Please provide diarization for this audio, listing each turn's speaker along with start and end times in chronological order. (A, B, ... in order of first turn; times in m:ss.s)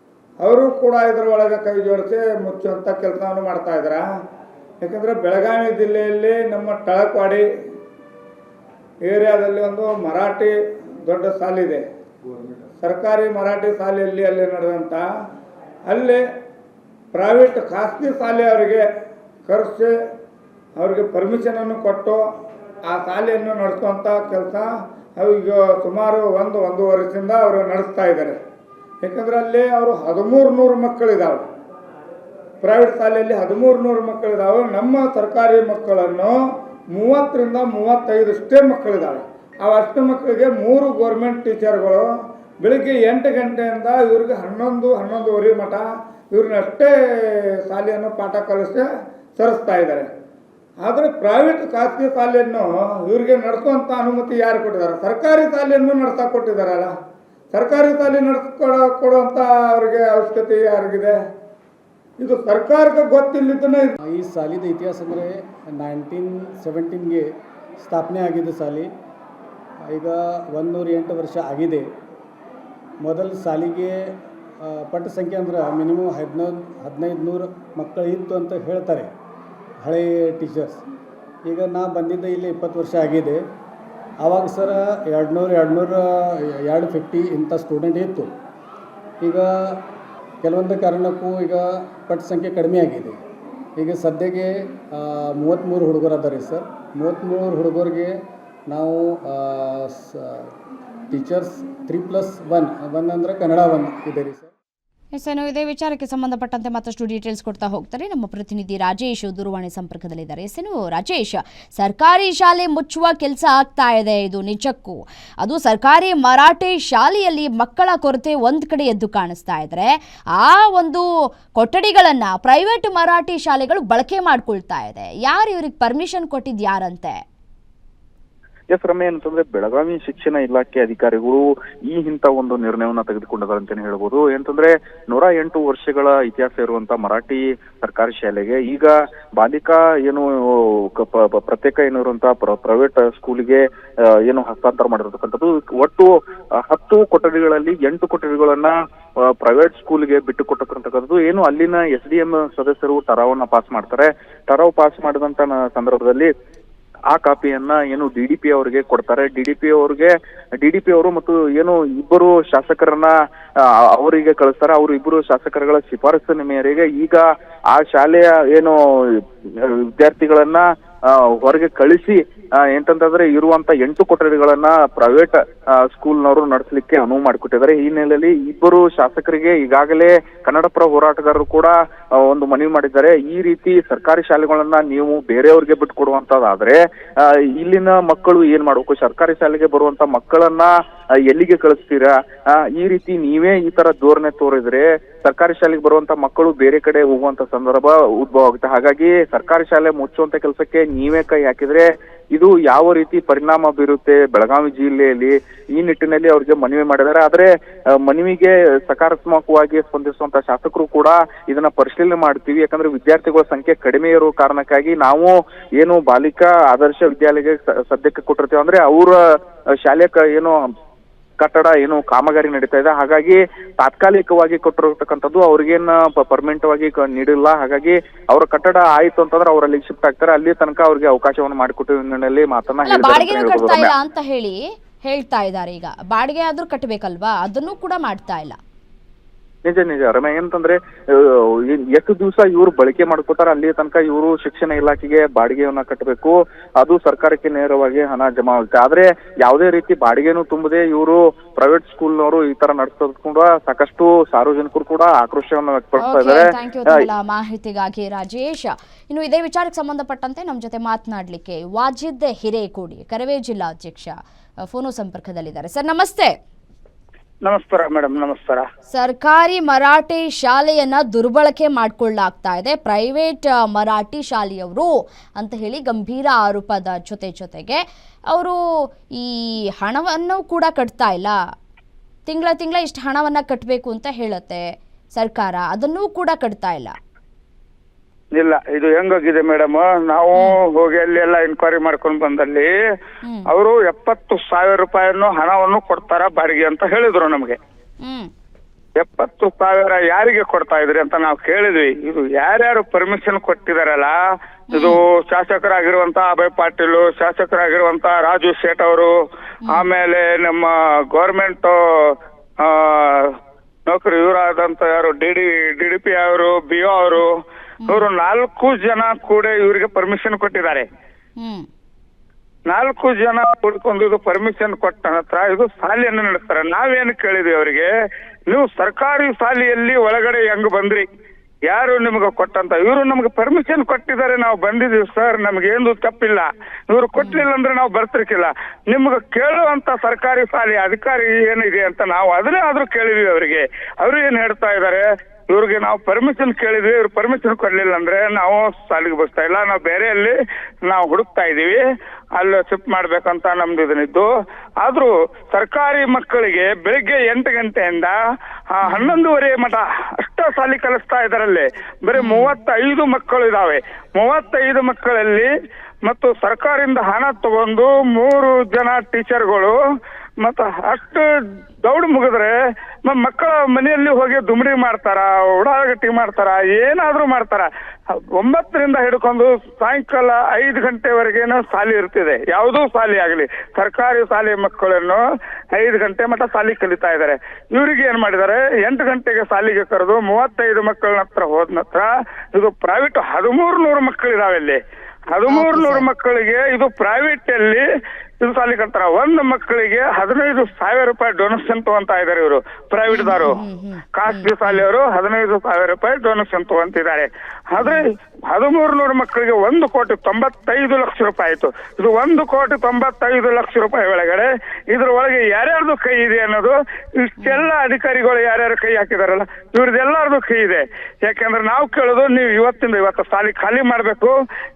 0:00.4-0:04.0 A
0:04.8-0:07.4 A
0:09.1-0:10.5 A
0:11.1-0:11.8 A
0:12.8-0:15.0 A
0:15.9-0:16.2 A
0:17.1-0:18.8 A
0:19.5-0:19.9 A
0:20.8-0:22.2 A
0:22.9-0:28.4 A
0:29.0-0:31.4 A
0:32.6-0:36.4 A
0:36.9-0:42.1 A
0:42.6-0:46.9 A
0:47.7-0:48.9 A
0:49.4-0:50.1 A
0:50.8-0:56.9 A
0:57.5-1:01.2 A
1:02.2-1:03.9 A
1:04.0-1:08.9 B
1:09.8-1:11.9 B
1:13.0-1:19.1 B
1:19.8-1:20.8 B
1:21.4-1:23.4 B
1:24.2-1:28.3 B
1:29.2-1:29.8 B
1:30.4-1:33.2 B
1:33.8-1:38.2 B
1:38.7-1:40.5 B
1:41.1-1:44.5 B
1:45.1-2:07.2 C
2:08.7-2:23.6 D
2:24.2-2:36.3 D
2:37.1-2:43.1 D
2:43.9-3:10.7 D
3:11.2-3:39.2 D
3:39.8-3:40.6 D
3:41.4-3:53.9 D
3:52.8-3:58.6 C
3:59.6-4:17.1 D
4:16.0-4:26.4 C
4:27.4-4:28.6 E
4:27.5-4:28.6 A
4:28.9-4:38.6 C
4:39.1-4:41.4 C
4:42.3-4:47.0 C
4:48.4-4:52.7 E
4:48.5-4:50.3 A
4:51.0-4:52.7 A
4:53.5-4:57.6 E
4:54.1-4:54.7 A
4:55.2-4:57.5 A
4:58.0-4:58.3 C
4:59.0-5:04.1 E
4:59.4-5:04.1 A
5:04.7-5:05.0 C
5:04.7-5:09.1 E
5:05.3-5:06.2 A
5:07.9-5:08.8 A
5:09.6-5:09.9 C
5:09.7-5:11.8 E
5:09.9-5:10.5 A
5:11.2-5:11.7 A
5:12.7-5:13.3 E
5:13.9-5:17.3 E
5:14.2-5:16.9 A
5:17.8-5:18.1 C
5:17.9-5:20.8 E
5:18.6-5:20.8 A
5:21.4-5:21.7 C
5:22.7-5:27.9 E
5:22.8-5:27.6 A
5:28.5-5:31.0 E
5:29.2-5:29.6 A
5:30.6-5:31.0 A
5:31.7-5:50.3 E
5:31.8-5:36.4 A
5:37.2-5:37.5 C
5:37.6-5:43.3 A
5:44.1-5:45.0 A
5:45.8-5:48.2 A
5:49.0-5:50.1 A
5:50.9-5:51.8 E
5:52.4-5:54.3 E
5:54.8-5:58.2 E
5:56.2-5:58.1 A
5:58.7-6:05.5 E
5:58.8-5:59.2 C
6:02.2-6:02.5 C
6:03.1-6:03.7 A
6:04.3-6:05.4 A
6:06.1-6:09.7 E
6:06.2-6:08.3 A
6:08.8-6:09.7 A
6:10.4-6:11.2 E
6:10.5-6:11.0 A
6:11.8-6:12.5 E
6:12.1-6:12.5 A
6:13.0-6:17.6 E
6:13.1-6:17.6 A
6:18.4-6:25.2 E
6:18.4-6:25.2 A
6:25.8-6:34.8 E
6:25.8-6:32.0 A
6:32.6-6:34.7 A
6:35.4-6:37.8 E
6:35.5-6:36.1 C
6:36.2-6:37.8 A
6:38.4-6:43.6 E
6:38.7-6:42.3 A
6:43.1-6:44.8 C
6:44.2-6:56.7 E
6:45.2-6:45.7 A
6:46.3-6:46.9 A
6:49.1-6:49.8 A
6:50.3-6:56.7 A
6:57.3-7:04.3 E
6:57.4-6:57.7 C
6:57.8-7:00.7 A
7:01.3-7:04.2 A